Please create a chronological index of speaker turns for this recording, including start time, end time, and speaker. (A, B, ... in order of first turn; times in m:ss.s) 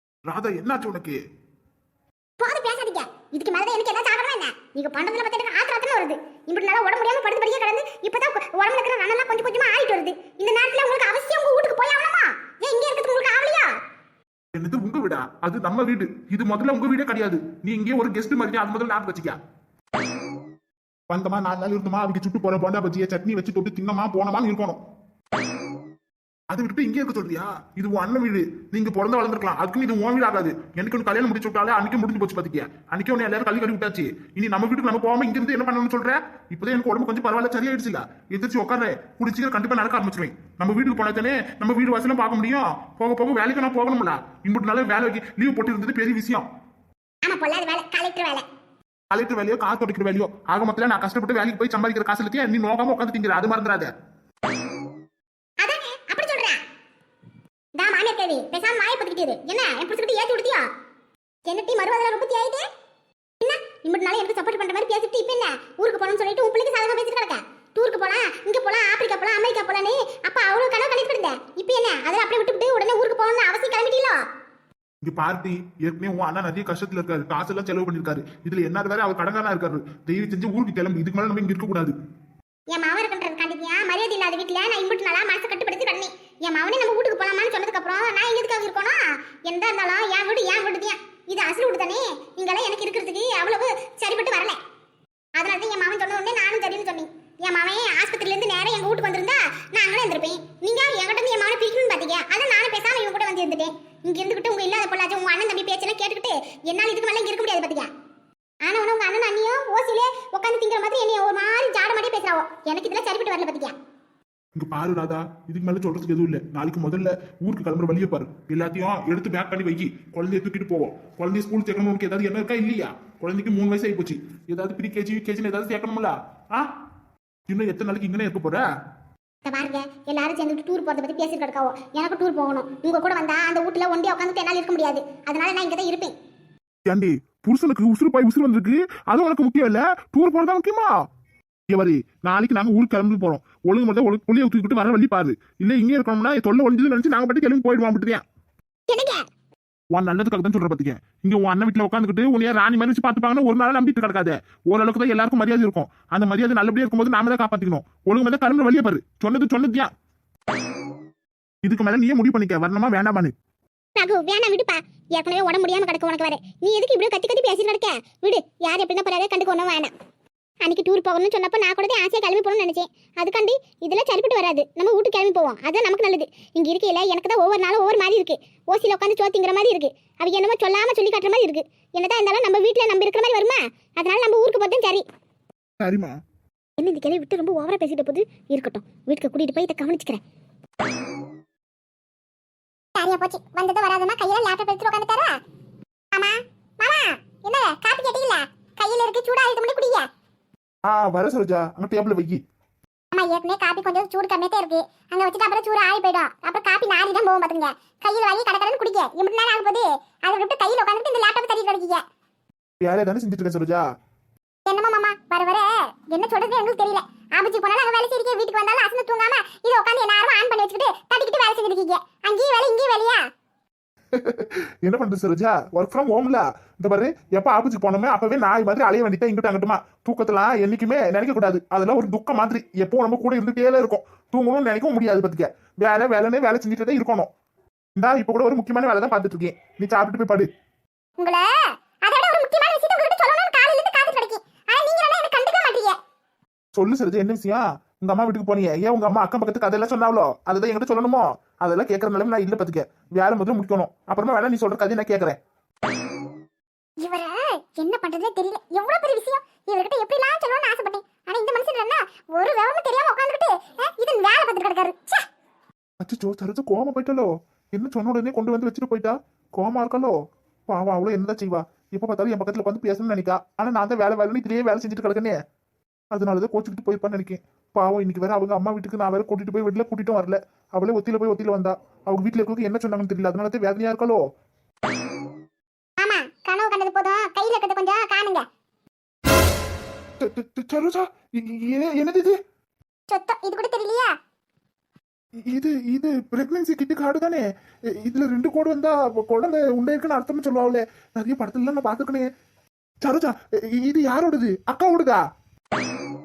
0:00.3-0:01.2 A
0:02.4-0:13.7 B
0:14.6-0:19.4 A
0:21.1-0:24.8 A
0:26.5-0:46.5 A
0:47.2-0:48.4 B
0:49.1-0:53.9 A
0:55.6-0:56.6 B
0:57.8-1:00.7 B
1:01.5-1:02.7 B
1:03.4-1:14.2 B
1:15.0-1:22.0 A
1:22.7-1:34.6 B
1:35.4-1:47.9 B
1:48.6-1:53.8 B
1:54.6-2:06.7 A
2:07.5-2:08.6 A
2:09.4-2:16.1 B
2:16.9-2:20.9 A
2:21.7-2:28.2 A
2:28.9-2:29.2 B
2:29.9-2:39.9 A
2:41.6-2:43.3 A
2:44.0-2:49.9 B
2:50.6-3:05.0 B
3:05.8-3:06.2 A
3:06.8-3:10.2 B
3:13.0-3:15.4 B
3:16.1-3:20.1 B
3:20.9-3:22.4 A
3:23.1-3:32.0 B
3:32.8-3:33.8 A
3:34.7-3:43.2 B
3:44.1-3:57.3 A
3:58.0-4:00.5 A
4:01.2-4:01.5 B
4:02.0-4:06.0 B
4:06.7-4:15.4 A
4:17.0-4:25.2 B
4:26.0-4:30.2 A
4:30.7-4:35.4 A
4:36.1-4:44.2 A
4:46.0-4:48.5 B
4:50.2-4:52.4 A
4:53.1-4:54.1 B
4:55.5-5:02.3 A
5:03.0-5:05.2 A